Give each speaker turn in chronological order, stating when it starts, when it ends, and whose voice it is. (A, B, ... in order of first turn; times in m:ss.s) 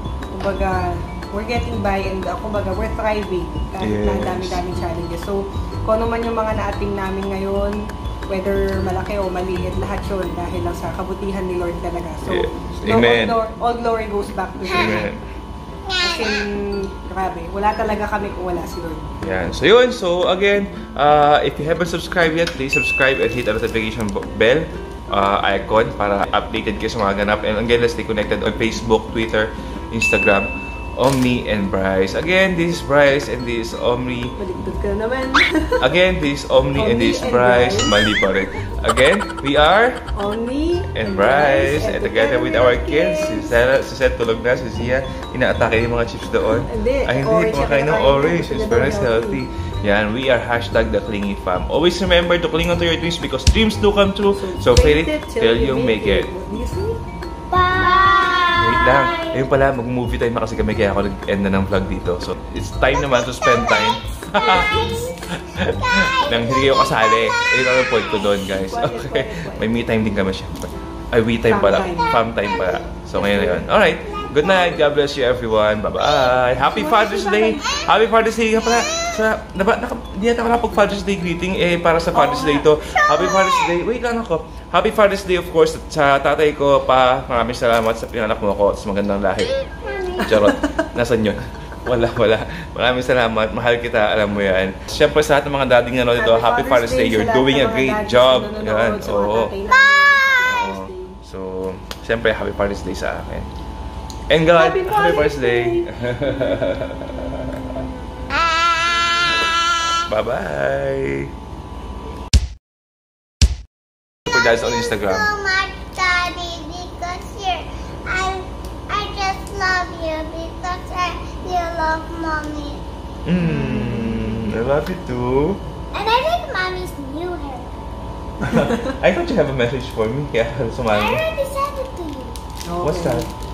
0:00.3-0:15.1 A
0:03.8-0:04.6 B
0:12.2-0:13.4 B
0:14.7-0:15.2 B
0:16.0-0:19.1 A
0:19.2-0:34.4 B
0:34.4-0:35.9 A
0:35.8-0:40.1 B
0:36.7-0:37.9 A
0:40.1-0:43.5 A
0:40.9-0:56.3 B
0:46.6-0:49.4 A
0:54.3-0:57.0 A
0:57.5-0:59.5 C
0:58.6-1:04.7 B
1:04.4-1:04.6 A
1:04.5-1:06.6 C
1:05.3-1:29.5 B
1:08.4-1:09.7 A
1:11.5-1:12.2 A
1:13.2-1:13.6 A
1:16.6-1:17.7 A
1:22.1-1:22.7 A
1:29.8-1:30.3 C
1:30.2-1:30.6 A
1:30.2-1:39.5 B
1:36.1-1:41.2 A
1:40.5-1:43.5 B
1:44.3-1:47.8 B
1:44.6-1:45.9 A
1:48.3-1:49.0 C
1:50.0-1:51.3 B
1:54.3-1:55.3 B
1:54.3-2:02.8 C
2:03.2-2:05.6 B
2:03.6-2:04.3 A
2:05.9-2:07.7 C
2:08.4-2:11.2 B
2:10.9-2:12.4 C
2:12.6-2:13.3 A
2:12.8-2:13.3 B